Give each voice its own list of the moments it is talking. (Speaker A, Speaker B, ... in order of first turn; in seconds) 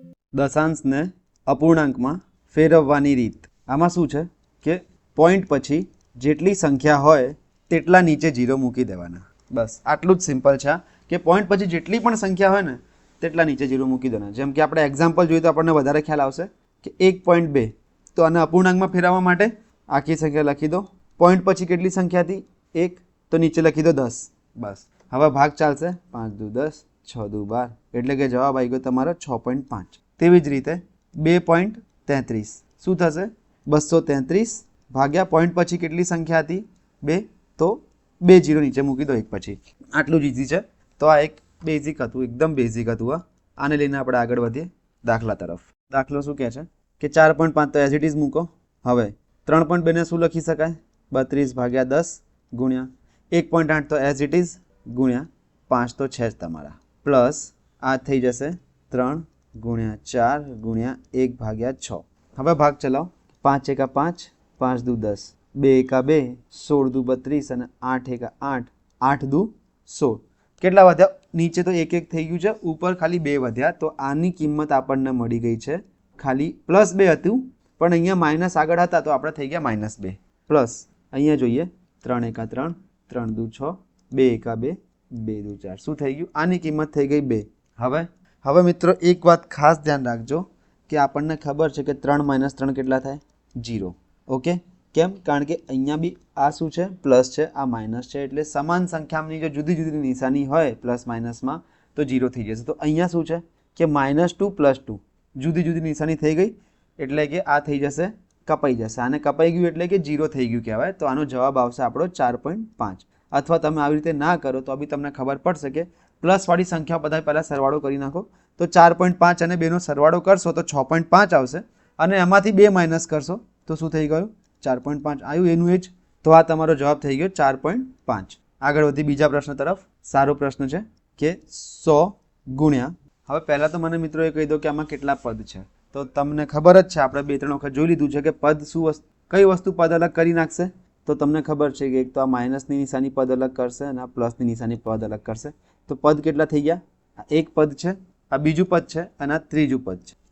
Speaker A: 0.3-150.1